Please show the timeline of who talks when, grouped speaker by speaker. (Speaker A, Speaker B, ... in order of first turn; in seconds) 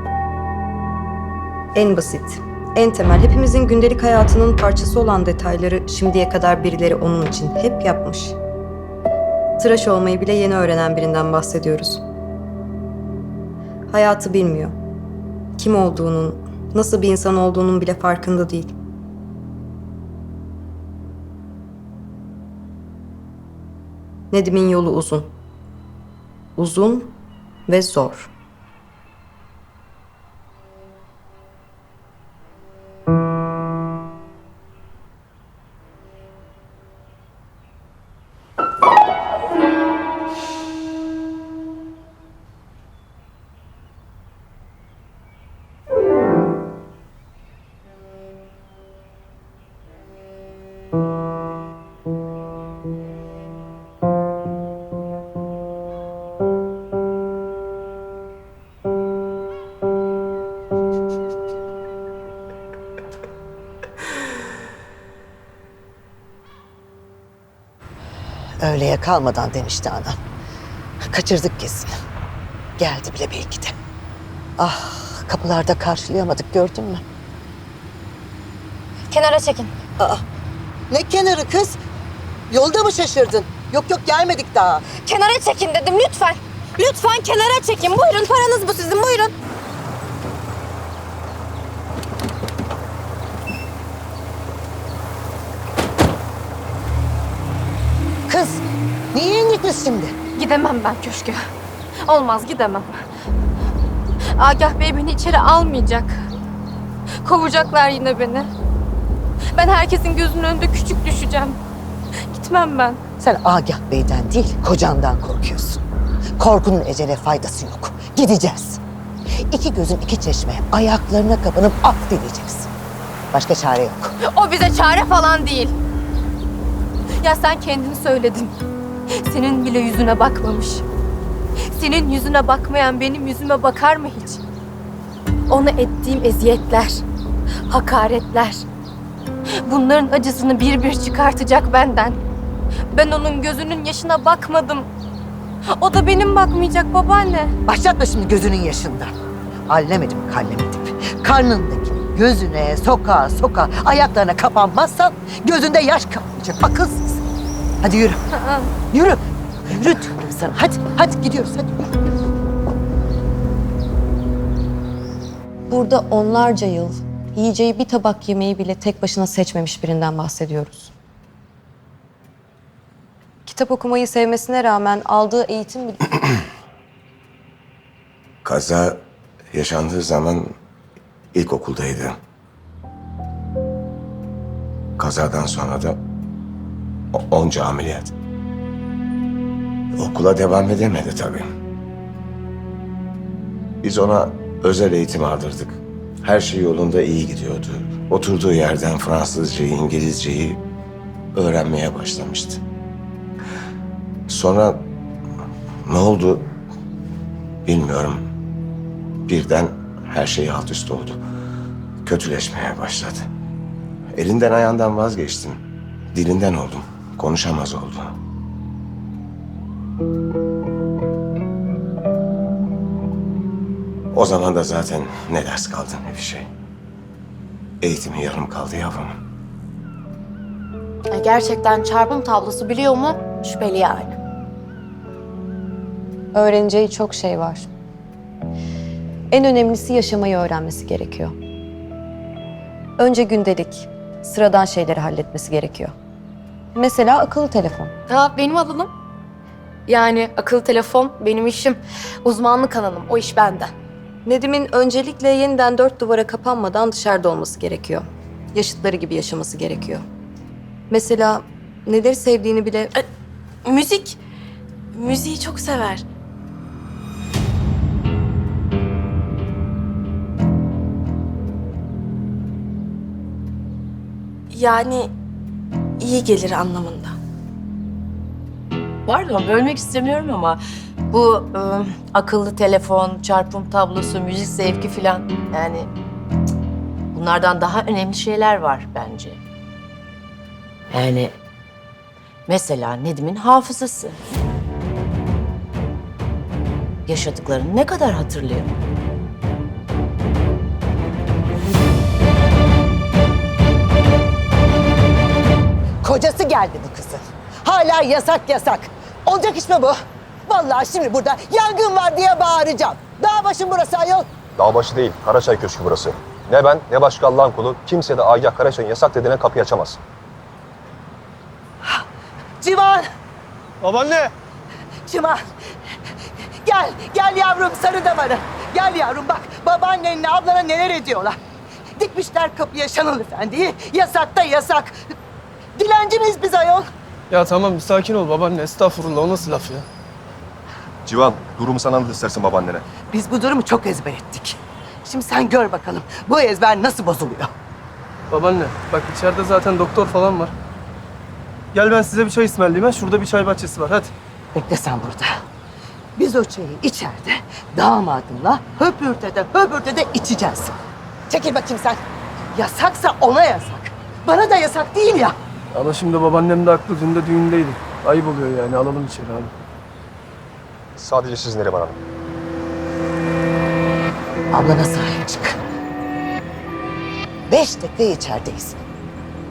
Speaker A: 1.8-8.4, 9.6-12.0, 13.9-14.7, 15.6-18.8, 24.3-25.3, 26.6-27.2, 27.7-28.3, 165.7-170.9, 173.5-176.2, 236.3-237.7, 239.3-241.4, 243.0-245.9, 246.8-247.9, 254.3-260.1, 260.9-263.1
Speaker B: 68.6-70.2, 71.1-71.9, 72.8-73.7, 74.6-77.0, 80.9-81.8, 82.5-84.9, 98.3-100.2, 113.2-115.8, 116.4-118.8, 119.5-122.7, 123.3-124.1, 147.7-149.1, 149.7-157.2, 157.8-158.2, 158.9-162.1, 306.0-310.0, 310.5-314.3, 322.6-323.1, 325.1-325.4, 326.6-331.4, 332.0-334.9, 335.8-336.9, 343.1-347.5, 354.5-355.3, 356.2-360.8, 361.3-362.0, 362.5-365.4, 374.5-375.6, 377.5-378.8
Speaker C: 79.1-79.7, 85.0-89.3, 100.4-101.4, 102.0-103.0, 104.4-106.3, 107.2-108.5, 109.5-111.6, 112.3-113.0, 124.2-125.8, 127.2-128.6, 129.2-130.8, 131.7-134.4, 135.5-137.1, 137.7-138.7, 139.6-142.2, 142.9-144.9, 145.8-147.5, 263.6-264.2, 264.9-266.0, 274.5-275.1, 276.0-277.2
Speaker D: 178.4-180.6, 181.3-182.2, 185.0-186.0, 187.1-188.1, 190.0-191.5, 193.8-200.6, 201.3-202.6, 204.3-204.9, 205.9-206.5, 207.7-208.2, 209.3-211.2, 212.0-213.3, 214.1-215.6, 216.1-218.2, 224.1-226.5, 227.8-229.2
Speaker E: 231.1-234.2, 248.1-248.9, 249.9-253.7
Speaker F: 279.1-285.9, 287.1-289.4, 290.9-291.3, 292.5-294.2, 297.1-298.7
Speaker G: 314.6-320.0, 341.1-342.8, 371.0-372.0
Speaker H: 323.8-324.3, 337.3-339.9, 348.3-350.5, 351.7-354.1, 365.7-369.5